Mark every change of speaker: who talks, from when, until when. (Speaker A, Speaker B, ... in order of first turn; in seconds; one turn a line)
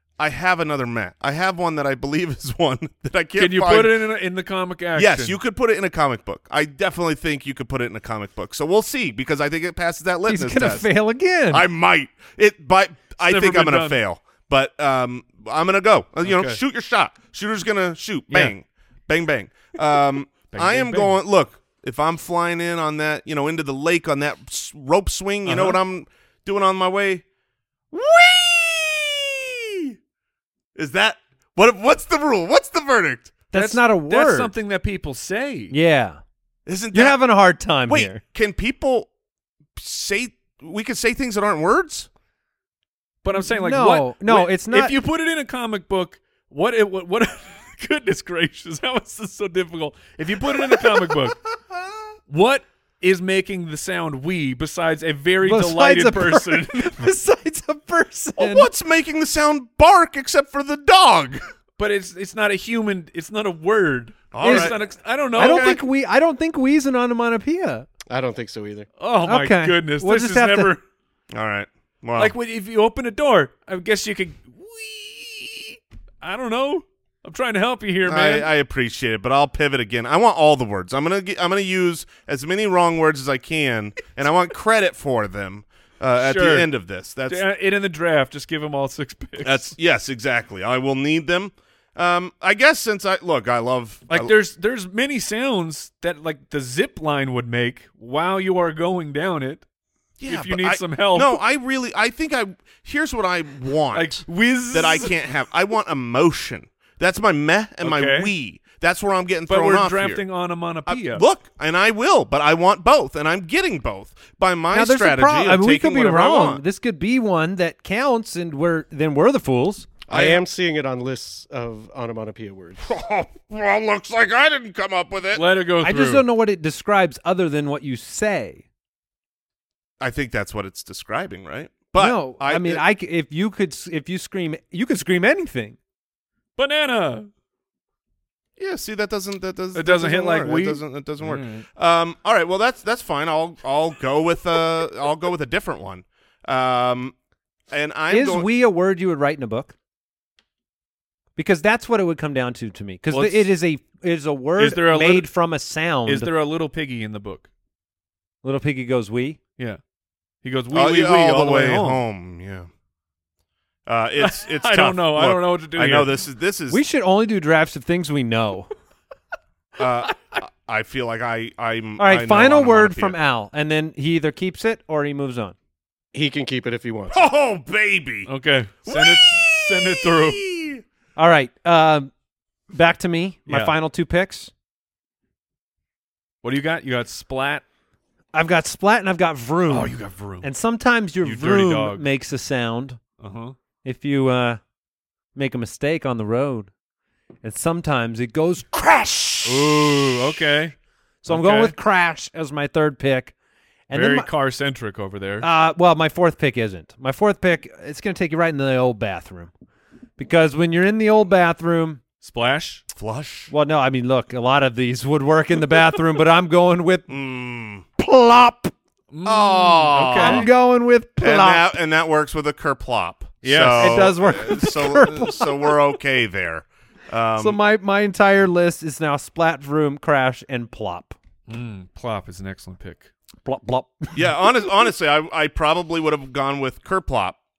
Speaker A: 0.2-4.0
Speaker B: 3.4-5.4
Speaker A: 5.0-10.9
Speaker C: 10.3-11.7
Speaker A: 11.5-27.2
Speaker B: 13.2-14.0
Speaker B: 16.2-16.6
Speaker B: 20.5-21.2
Speaker B: 25.5-25.8
Speaker A: 27.9-29.9
Speaker A: 30.8-33.4
Speaker C: 33.5-34.5
Speaker B: 33.5-35.8
Speaker C: 35.7-36.2
Speaker A: 36.7-37.2
Speaker C: 36.9-38.2
Speaker A: 37.9-39.1
Speaker A: 39.8-42.1
Speaker B: 43.2-51.4
Speaker C: 43.4-44.9
Speaker B: 52.3-57.1
Speaker C: 55.4-58.7
Speaker A: 58.4-61.4
Speaker B: 61.8-65.8
Speaker A: 64.3-64.8
Speaker C: 64.4-64.7
Speaker C: 65.4-67.9
Speaker D: 68.1-68.9
Speaker B: 69.0-70.8
Speaker C: 69.3-70.7
Speaker A: 71.3-72.3
Speaker B: 72.2-78.5
Speaker A: 78.1-87.5
Speaker B: 86.2-86.7
Speaker B: 87.3-89.7
Speaker A: 89.4-94.3
Speaker B: 94.1-99.7
Speaker A: 100.2-110.2
Speaker B: 100.3-101.4
Speaker B: 103.9-105.1
Speaker B: 107.8-108.3
Speaker B: 109.5-111.2
Speaker A: 110.9-116.6
Speaker C: 114.7-120.1
Speaker D: 120.1-122.8
Speaker A: 120.1-120.4
Speaker A: 122.8-125.5
Speaker B: 125.3-126.3
Speaker C: 125.8-128.6
Speaker A: 130.0-132.8
Speaker C: 132.0-135.8
Speaker B: 136.6-137.3
Speaker A: 138.6-147.1
Speaker B: 139.7-141.7
Speaker A: 147.7-148.5
Speaker C: 148.1-149.7
Speaker C: 151.4-156.3
Speaker B: 153.1-153.5
Speaker B: 154.6-155.3
Speaker B: 156.1-157.5
Speaker C: 158.4-159.4
Speaker B: 160.4-162.0
Speaker A: 160.7-162.7
Speaker A: 163.9-166.8
Speaker B: 164.2-166.2
Speaker C: 166.7-168.7
Speaker A: 169.8-173.2
Speaker C: 172.0-175.6
Speaker D: 176.1-177.2
Speaker A: 177.1-178.3
Speaker B: 178.3-180.4
Speaker A: 178.9-180.8
Speaker C: 181.2-182.1
Speaker C: 182.7-184.5
Speaker B: 183.5-183.7
Speaker B: 186.4-187.6
Speaker C: 188.3-193.0
Speaker B: 189.7-190.5
Speaker B: 191.2-192.1
Speaker B: 193.2-193.6
Speaker C: 193.8-194.6
Speaker C: 195.3-196.7
Speaker C: 197.4-200.1
Speaker B: 199.4-200.8
Speaker C: 201.2-203.3
Speaker B: 201.3-201.8
Speaker C: 203.9-204.3
Speaker B: 203.9-205.5
Speaker C: 205.4-209.5
Speaker C: 210.2-212.0
Speaker B: 212.2-212.8
Speaker A: 212.9-213.5
Speaker C: 213.5-217.1
Speaker A: 217.1-217.9
Speaker C: 218.0-218.7
Speaker B: 219.1-220.5
Speaker A: 219.2-220.5
Speaker C: 220.1-221.7
Speaker A: 221.2-227.6
Speaker B: 223.4-224.1
Speaker C: 223.7-225.7
Speaker C: 227.4-231.2
Speaker B: 231.5-233.1
Speaker C: 233.4-234.2
Speaker A: 234.1-237.4